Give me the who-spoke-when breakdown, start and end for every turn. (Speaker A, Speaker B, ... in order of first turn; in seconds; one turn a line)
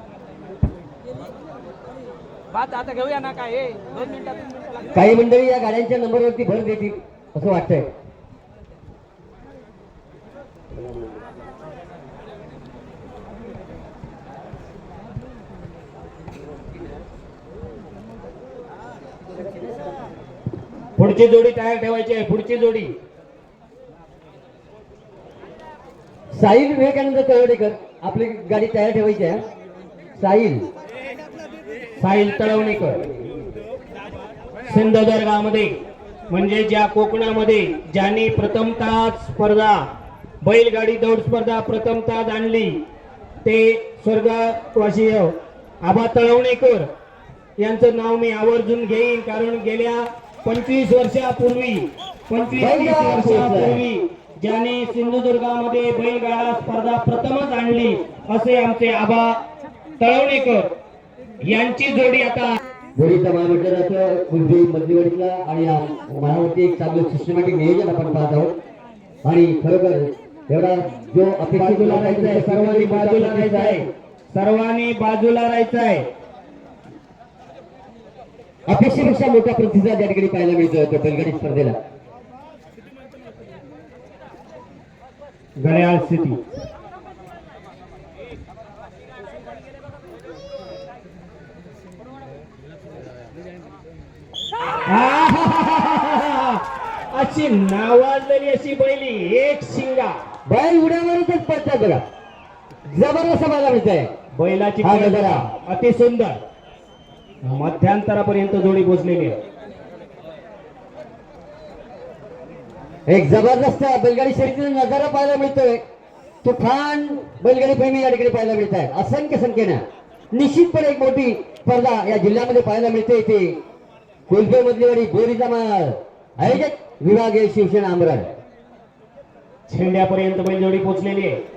Speaker A: 2.5-4.8
Speaker B: 4.9-7.9
Speaker C: 21.0-23.0
Speaker B: 26.3-29.4
Speaker B: 30.2-30.7
Speaker C: 32.0-33.1
Speaker C: 34.7-35.7
Speaker C: 36.3-39.9
Speaker C: 40.4-42.8
Speaker C: 43.4-46.9
Speaker C: 47.6-59.4
Speaker B: 52.6-53.8
Speaker C: 60.0-60.7
Speaker C: 61.4-62.6
Speaker B: 63.0-68.6
Speaker B: 69.2-73.8
Speaker C: 71.5-76.1
Speaker B: 78.7-81.8
Speaker C: 85.6-86.4
Speaker C: 94.9-100.2
Speaker B: 100.5-102.0
Speaker B: 102.9-104.1
Speaker C: 104.4-106.4
Speaker B: 104.8-105.5
Speaker C: 107.4-109.4
Speaker B: 113.1-115.8
Speaker B: 116.4-123.6
Speaker B: 124.3-128.3
Speaker C: 129.7-131.4